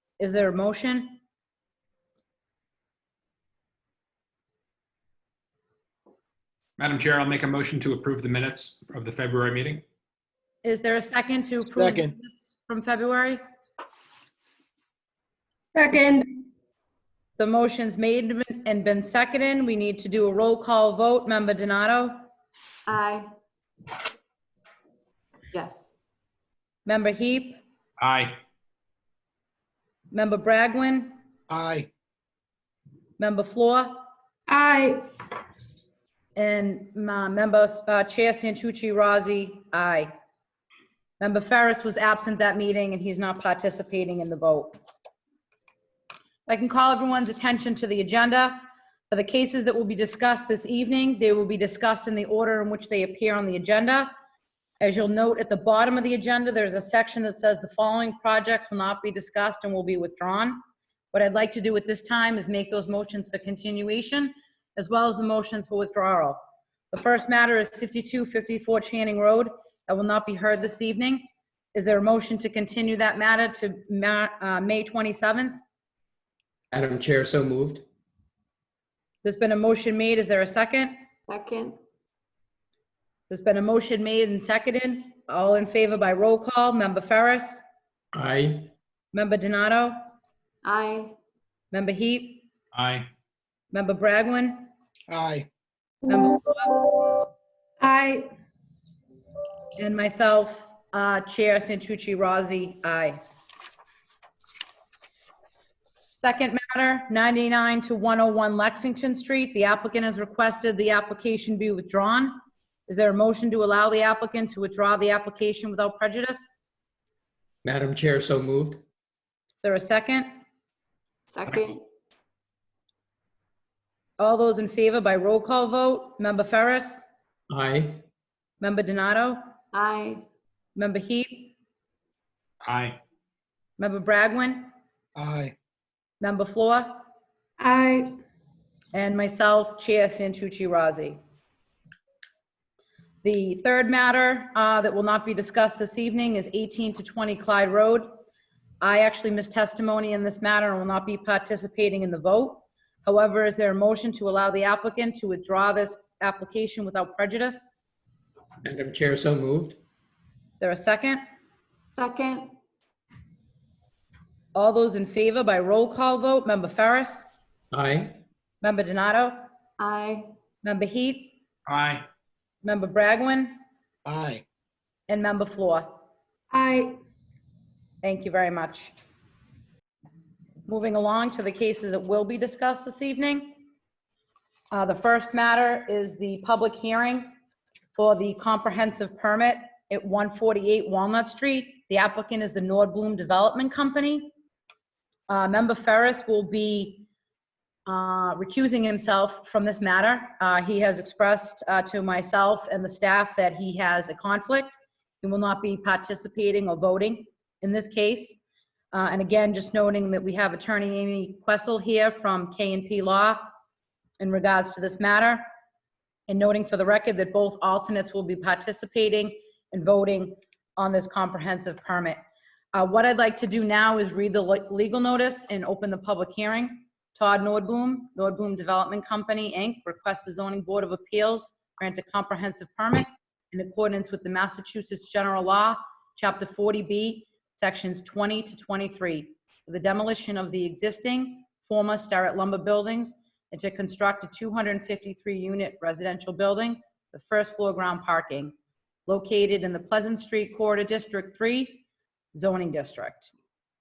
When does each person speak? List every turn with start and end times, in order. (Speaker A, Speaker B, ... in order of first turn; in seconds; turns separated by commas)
Speaker A: 0.2-1.2, Speaker B: 6.8-9.8, Speaker A: 10.6-13.4, Speaker C: 11.8-12.1, Speaker D: 15.7-16.2, Speaker A: 17.4-22.2, Speaker E: 22.9-23.3, Speaker E: 25.5-25.9, Speaker A: 26.9-27.6, Speaker B: 28.0-28.4, Speaker A: 30.1-31.2, Speaker C: 31.5-31.9, Speaker A: 33.2-34.0, Speaker D: 34.5-35.0, Speaker A: 36.4-40.1, Speaker A: 41.2-44.8, Speaker A: 46.5-54.1, Speaker A: 54.8-60.6, Speaker A: 61.1-66.4, Speaker A: 66.9-75.6, Speaker F: 76.7-77.8, Speaker A: 79.2-80.9, Speaker E: 81.3-81.8, Speaker A: 83.3-87.6, Speaker F: 88.1-88.7, Speaker A: 89.1-90.0, Speaker E: 90.6-91.2, Speaker A: 91.7-92.4, Speaker B: 92.7-93.1, Speaker A: 93.7-94.7, Speaker C: 95.1-95.5, Speaker A: 96.1-96.8, Speaker D: 97.8-98.3, Speaker A: 99.8-103.2, Speaker A: 106.1-116.5, Speaker F: 117.6-118.8, Speaker A: 119.6-120.3, Speaker E: 121.3-121.8, Speaker A: 124.2-127.0, Speaker F: 127.5-128.0, Speaker A: 128.6-129.4, Speaker E: 129.7-130.2, Speaker A: 130.8-131.5, Speaker B: 132.6-133.0, Speaker A: 133.8-134.7, Speaker C: 135.2-135.5, Speaker A: 136.2-137.0, Speaker D: 137.6-138.1, Speaker A: 138.9-141.2, Speaker A: 143.2-148.2, Speaker A: 148.8-157.7, Speaker F: 158.6-159.8, Speaker A: 160.6-161.2, Speaker E: 161.9-162.5, Speaker A: 164.5-167.3, Speaker F: 167.7-168.2, Speaker A: 168.6-169.4, Speaker E: 169.8-170.3, Speaker A: 170.6-171.3, Speaker B: 171.7-172.1, Speaker A: 172.6-173.6, Speaker C: 174.1-174.4, Speaker A: 175.1-176.0, Speaker D: 176.5-177.0, Speaker A: 178.0-178.9, Speaker A: 180.7-183.6, Speaker A: 184.7-187.3, Speaker A: 187.9-194.3, Speaker A: 195.3-197.1, Speaker A: 197.9-208.4, Speaker A: 208.9-213.4, Speaker A: 214.2-215.4, Speaker A: 216.3-222.2, Speaker A: 222.7-248.5, Speaker A: 249.1-251.8, Speaker A: 252.3-253.3